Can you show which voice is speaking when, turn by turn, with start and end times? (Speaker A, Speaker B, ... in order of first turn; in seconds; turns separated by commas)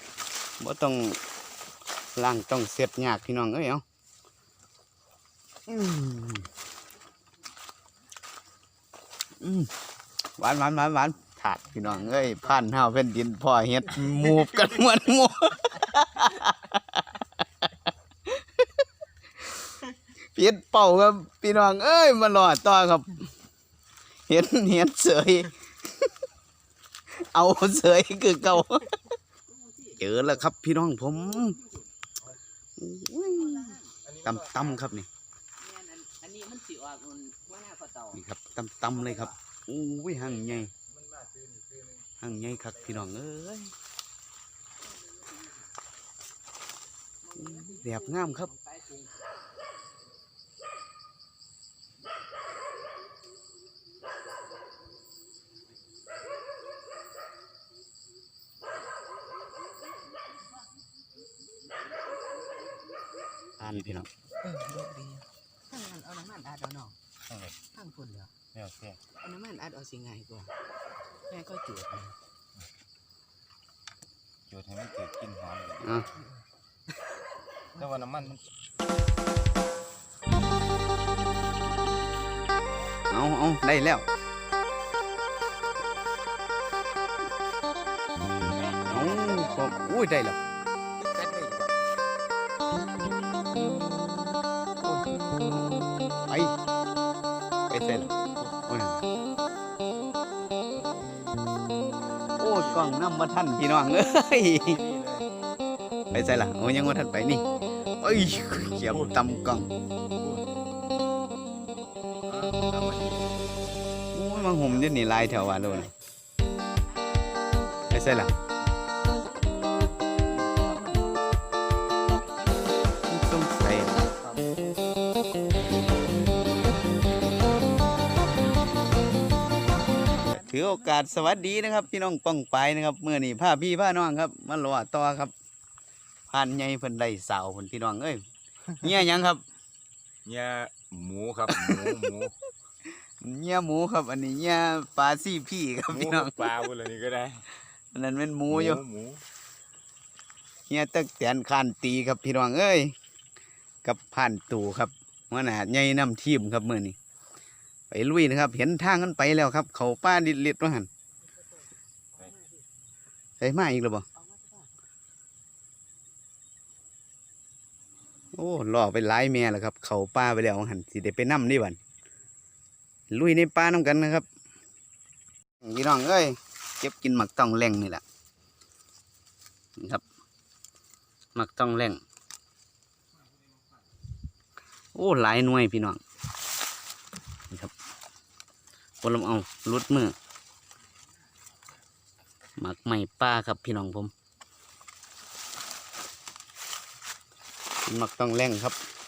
Speaker A: 0.6-1.2, Speaker A: 2.1-3.8, Speaker A: 5.7-6.5, Speaker A: 9.4-9.7, Speaker A: 10.4-17.4, Speaker A: 18.3-18.7, Speaker A: 20.4-23.3, Speaker A: 24.3-26.1, Speaker A: 27.1-29.1, Speaker B: 29.5-30.3, Speaker A: 30.0-31.6, Speaker B: 31.2-31.8, Speaker A: 32.8-35.1, Speaker B: 33.3-34.0, Speaker C: 34.0-34.9, Speaker B: 35.6-38.2, Speaker A: 38.1-40.7, Speaker B: 38.9-39.4, Speaker C: 40.1-43.1, Speaker A: 42.2-43.7, Speaker B: 45.0-45.5, Speaker B: 47.2-49.1, Speaker A: 47.4-48.5, Speaker A: 63.6-64.1, Speaker C: 63.6-64.1, Speaker B: 64.4-67.0, Speaker C: 67.3-67.6, Speaker B: 67.8-68.3, Speaker C: 68.5-69.0, Speaker B: 69.2-70.5, Speaker B: 71.3-72.2, Speaker C: 74.5-76.1, Speaker A: 75.8-76.1, Speaker C: 77.8-78.5, Speaker A: 83.1-84.1, Speaker C: 88.5-89.7, Speaker A: 88.9-90.4, Speaker C: 91.0-91.8, Speaker A: 94.8-95.5, Speaker A: 96.3-96.6, Speaker A: 97.7-99.0, Speaker A: 102.4-104.8, Speaker C: 102.5-103.0, Speaker C: 104.6-105.4, Speaker A: 106.1-107.5, Speaker A: 108.0-109.7, Speaker C: 108.9-109.3, Speaker C: 110.1-110.7, Speaker C: 112.3-113.4, Speaker A: 114.1-115.9, Speaker A: 117.9-118.3, Speaker B: 119.2-121.1, Speaker A: 123.1-124.1, Speaker B: 130.1-131.6, Speaker A: 130.3-135.3, Speaker A: 136.3-138.2, Speaker A: 138.8-139.4, Speaker C: 140.2-142.3, Speaker A: 141.5-142.0, Speaker A: 142.9-146.5, Speaker C: 145.9-147.4, Speaker A: 147.9-148.8, Speaker C: 148.5-149.2, Speaker A: 150.7-152.9, Speaker A: 153.8-157.0, Speaker A: 157.9-160.9, Speaker A: 163.4-164.1, Speaker B: 164.2-164.6, Speaker A: 168.3-171.8, Speaker A: 173.1-174.3, Speaker A: 175.6-178.0, Speaker A: 179.8-180.0, Speaker A: 181.3-182.0, Speaker A: 184.9-186.0, Speaker A: 189.0-190.2, Speaker A: 192.6-194.1, Speaker A: 197.9-198.8